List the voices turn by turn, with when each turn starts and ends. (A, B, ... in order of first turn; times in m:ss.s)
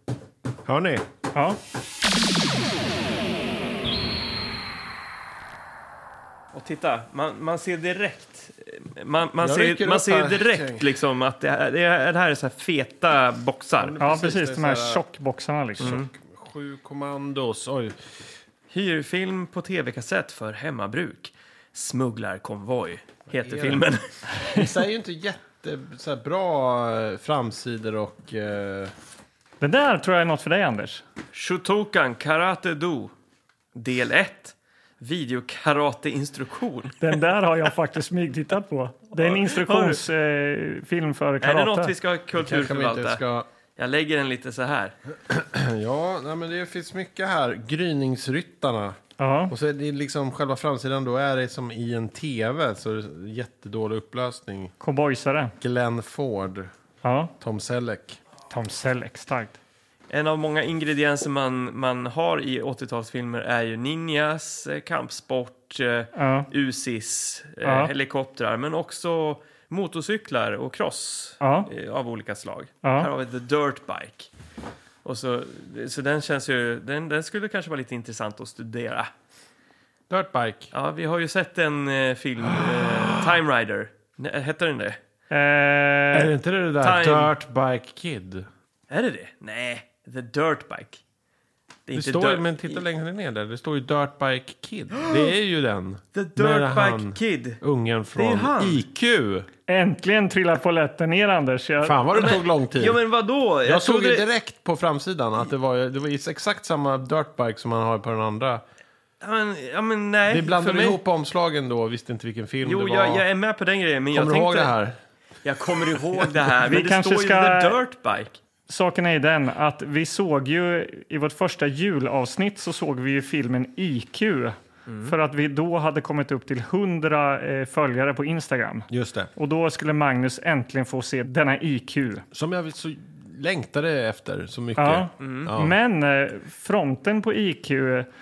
0:00.7-0:01.0 A
0:06.5-0:14.0 B
0:09.4-0:10.9 A
0:13.8-0:15.0 A
0:14.0-0:16.0 C
0:15.8-0:18.0 A
0:15.8-0:16.1 B
0:18.7-0:24.0 B
0:23.3-0:23.9 A
0:24.5-0:28.9 A
0:29.6-0:31.0 C
0:31.3-0:33.1 B
0:33.8-0:37.1 B
0:37.0-0:41.9 C
0:39.2-0:40.0 B
0:41.4-0:43.2 B
0:42.4-0:43.5 A
0:43.8-0:44.9 B
0:45.3-0:54.7 A
0:49.2-0:49.5 C
0:54.8-0:55.5 C
0:55.6-0:56.7 A
0:57.0-0:57.3 C
0:57.4-0:58.2 A
0:58.5-0:59.6 C
1:00.1-1:14.3 B
1:06.2-1:06.5 C
1:07.6-1:07.9 C
1:11.4-1:11.7 C
1:12.8-1:13.1 C
1:15.0-1:19.1 B
1:20.1-1:20.7 A
1:20.7-1:25.0 B
1:22.5-1:23.4 A
1:25.3-1:26.3 C
1:26.1-1:28.5 A
1:26.8-1:27.3 B
1:28.9-1:31.0 B
1:31.9-1:32.8 B
1:31.9-1:39.5 A
1:36.2-1:37.6 B
1:38.2-1:38.8 B
1:39.7-1:42.0 C
1:41.8-1:43.0 A
1:42.2-1:44.3 B
1:43.6-1:48.6 A
1:49.2-1:51.0 B
1:50.3-1:53.2 A
1:52.6-1:54.7 B
1:54.1-1:55.0 A
1:55.4-1:58.4 B
1:56.6-1:57.8 C
1:58.7-2:12.2 C
2:04.9-2:05.1 B
2:08.9-2:09.3 A
2:12.3-2:15.8 A
2:14.8-2:18.1 C
2:15.2-2:15.5 B